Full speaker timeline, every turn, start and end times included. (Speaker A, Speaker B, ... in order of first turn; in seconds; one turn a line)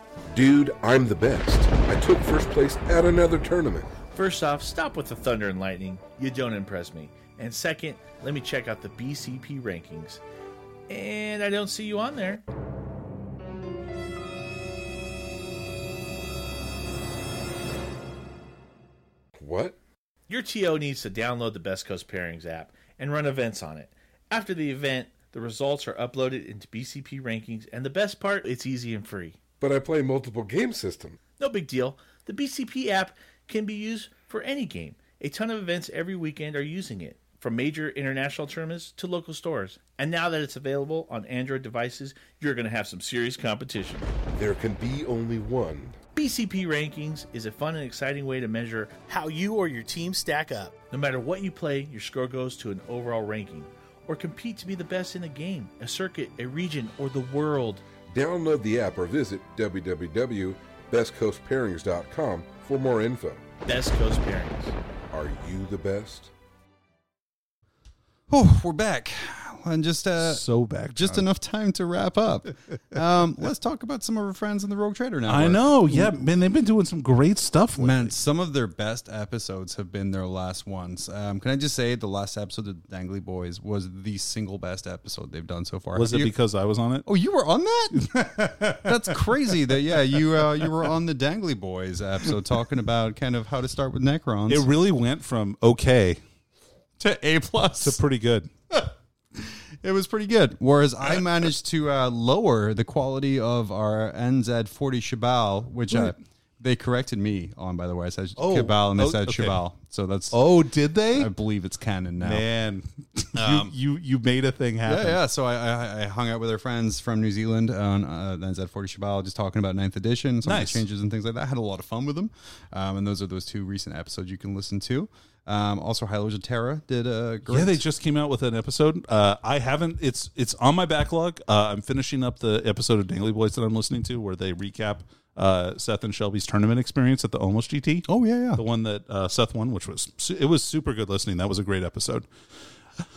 Speaker A: 0.3-3.9
Speaker B: 4.1-10.2
Speaker B: 10.9-12.4
Speaker A: 19.4-19.8
Speaker B: 20.3-29.4
Speaker A: 29.6-31.2
Speaker B: 31.4-44.1
Speaker A: 44.3-46.0
Speaker B: 46.1-57.8
Speaker A: 58.1-63.5
Speaker B: 63.7-64.8
Speaker A: 65.1-66.3
Speaker C: 68.3-76.2
Speaker D: 70.2-71.3
Speaker D: 75.3-78.1
Speaker C: 77.8-86.3
Speaker D: 85.9-87.1
Speaker C: 87.0-94.7
Speaker D: 88.0-90.9
Speaker D: 94.5-96.2
Speaker C: 97.0-98.0
Speaker D: 97.8-98.5
Speaker C: 98.7-110.5
Speaker D: 105.9-106.2
Speaker D: 108.4-109.6
Speaker D: 110.3-111.3
Speaker C: 111.1-112.5
Speaker D: 112.2-115.2
Speaker C: 113.3-113.7
Speaker C: 114.9-127.8
Speaker D: 120.4-120.8
Speaker D: 127.5-142.3
Speaker C: 138.1-138.6